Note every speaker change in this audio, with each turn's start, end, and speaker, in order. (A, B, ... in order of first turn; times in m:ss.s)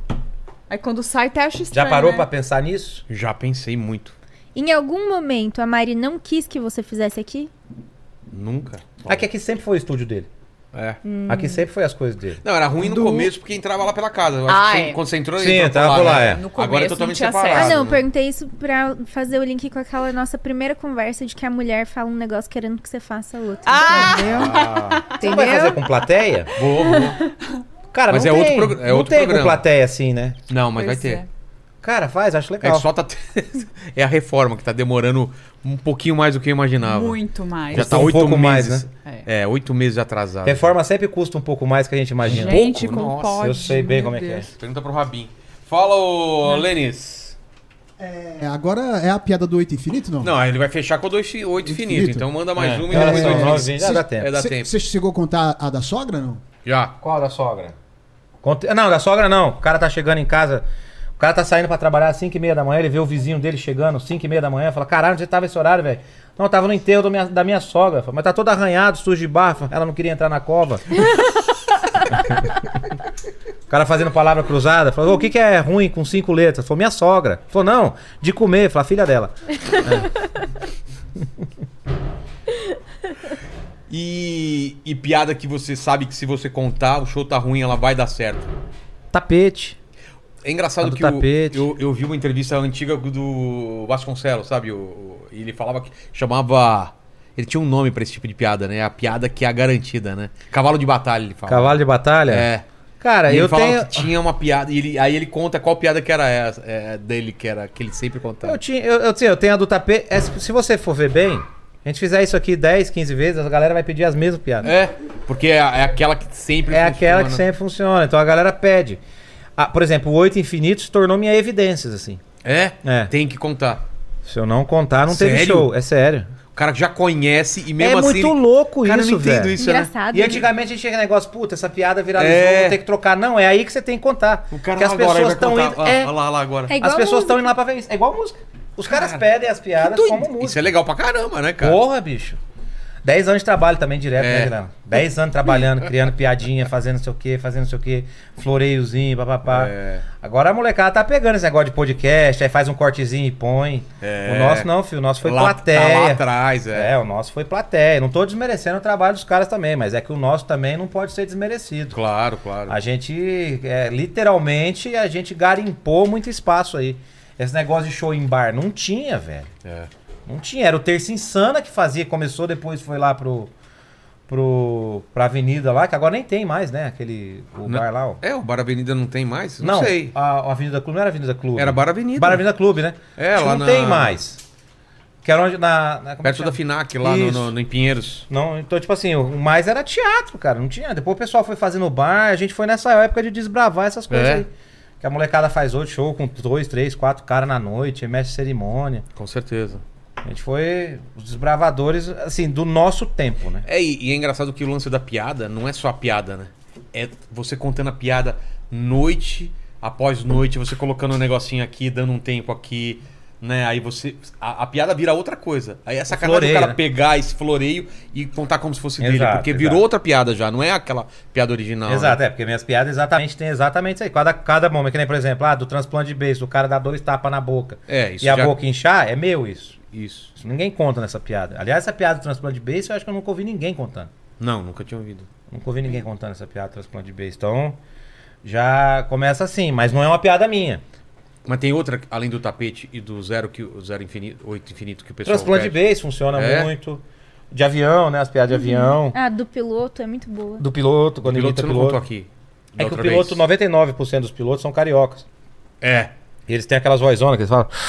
0:00.7-0:02.3 A
0:01.7-0:03.0 B
0:03.1-0:04.1 C
0:04.5-0:07.5 D
0:08.3-0:09.2 C
0:09.1-0:10.3 B
0:10.7-0:11.0 C
0:11.0-0:11.6 D
0:11.3-0:13.3 B
0:12.4-0:18.0 C
0:14.5-0:15.0 A
0:15.4-0:16.4 B
0:16.0-0:17.8 A
0:17.5-0:24.4 D
0:23.6-0:25.1 A
0:23.9-0:26.5 B
0:24.3-0:25.0 C
0:25.2-0:25.8 D
0:26.5-0:27.2 C
0:27.9-0:30.4 B
0:28.1-0:29.6 C
0:30.5-0:31.2 C
0:30.8-0:31.3 A
0:31.8-0:32.9 B
0:32.6-0:40.7 C
0:36.8-0:38.1 A
0:37.7-0:38.9 B
0:40.4-0:42.6 B
0:42.2-0:43.5 C
0:42.2-0:44.5 A
0:43.4-0:44.5 B
0:44.6-0:47.4 C
0:48.0-0:50.3 E
0:50.2-0:54.7 C
0:51.6-0:56.4 E
0:52.6-0:54.3 B
0:56.6-0:56.9 C
0:57.0-0:57.7 B
0:58.4-1:00.6 B
1:01.2-1:10.8 B
1:12.1-1:12.5 B
1:13.7-1:19.3 B
1:23.9-1:28.5 C
1:29.1-1:29.8 B
1:30.4-1:42.6 C
1:30.8-1:31.7 B
1:41.5-1:42.5 B
1:43.0-1:44.1 B
1:43.3-1:48.6 C
1:48.4-1:54.7 B
1:54.6-1:57.4 C
1:56.7-1:59.0 B
1:59.6-2:02.2 B
2:02.4-2:03.8 C
2:02.8-2:03.1 B
2:04.2-2:06.3 B
2:05.1-2:05.7 C
2:06.5-2:09.9 C
2:07.8-2:09.5 B
2:09.6-2:10.4 D
2:10.1-2:16.1 B
2:12.2-2:12.8 C
2:14.5-2:16.8 C
2:16.7-2:17.5 D
2:16.8-2:20.7 B
2:18.9-2:19.2 C
2:19.8-2:21.8 C
2:21.6-2:22.4 B
2:23.0-2:42.0 B
2:24.2-2:24.5 C
2:29.5-2:30.0 C
2:34.0-2:34.7 C
2:35.2-2:36.9 C
2:41.9-2:42.8 C
2:42.7-2:49.5 B
2:49.6-2:49.9 C
2:50.3-2:53.5 B
2:54.3-2:58.2 B
2:57.7-3:00.1 C
2:59.6-3:04.4 B
3:01.6-3:02.4 C
3:03.2-3:04.2 C
3:05.2-3:07.5 B
3:06.2-3:08.2 C
3:08.3-3:19.0 B
3:14.1-3:14.4 C
3:19.2-3:19.8 C
3:20.2-3:23.6 B
3:23.6-3:42.2 C
3:36.1-3:36.8 B
3:39.0-3:39.8 B
3:41.9-3:49.8 B
3:47.9-3:48.6 C
3:49.9-3:50.3 C
3:50.4-3:54.1 B
3:54.4-3:55.3 C
3:55.5-3:57.8 B
3:58.4-4:00.8 B
4:01.4-4:05.8 C
4:05.2-4:09.2 B
4:06.3-4:06.7 C
4:08.5-4:10.6 D
4:10.6-4:12.0 B
4:11.2-4:13.4 C
4:12.8-4:15.2 B
4:15.8-4:16.1 C
4:16.5-4:17.7 B